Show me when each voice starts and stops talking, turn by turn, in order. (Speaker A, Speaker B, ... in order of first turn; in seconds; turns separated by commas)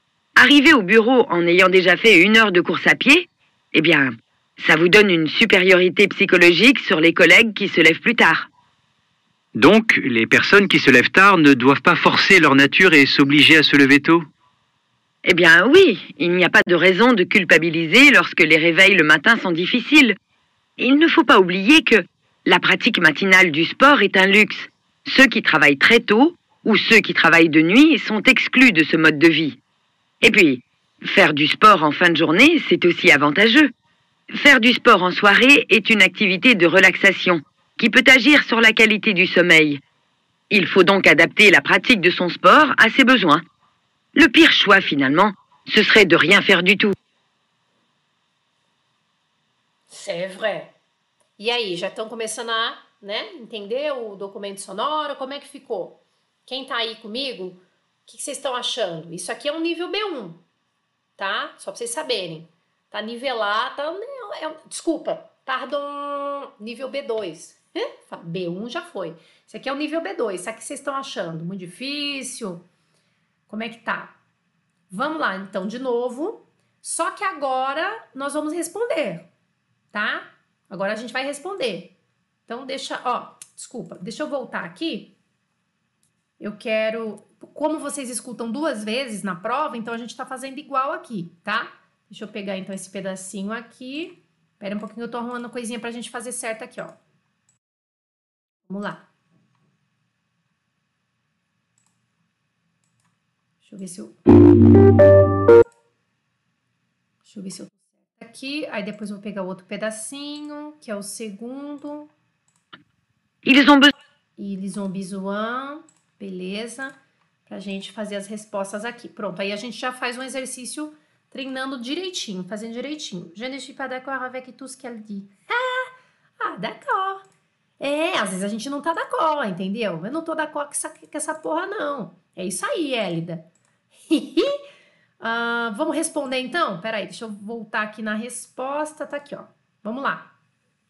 Speaker A: 0.3-8.5, Speaker B: 9.5-14.2, Speaker A: 15.2-20.1, Speaker A: 20.8-29.6, Speaker A: 30.2-33.7, Speaker A: 34.3-39.8, Speaker A: 40.5-43.4, Speaker A: 44.1-46.9, Speaker C: 49.9-50.7, Speaker C: 51.4-60.4, Speaker C: 61.2-72.7, Speaker C: 73.5-74.1, Speaker C: 74.9-79.3, Speaker C: 79.9-81.9, Speaker C: 82.5-85.1, Speaker C: 86.4-97.0, Speaker C: 98.7-99.0, Speaker C: 103.6-104.2, Speaker C: 107.2-112.1, Speaker A: 113.4-113.9, Speaker C: 114.4-116.9, Speaker C: 117.5-127.2, Speaker C: 127.8-133.4, Speaker C: 134.1-134.6, Speaker C: 135.2-140.3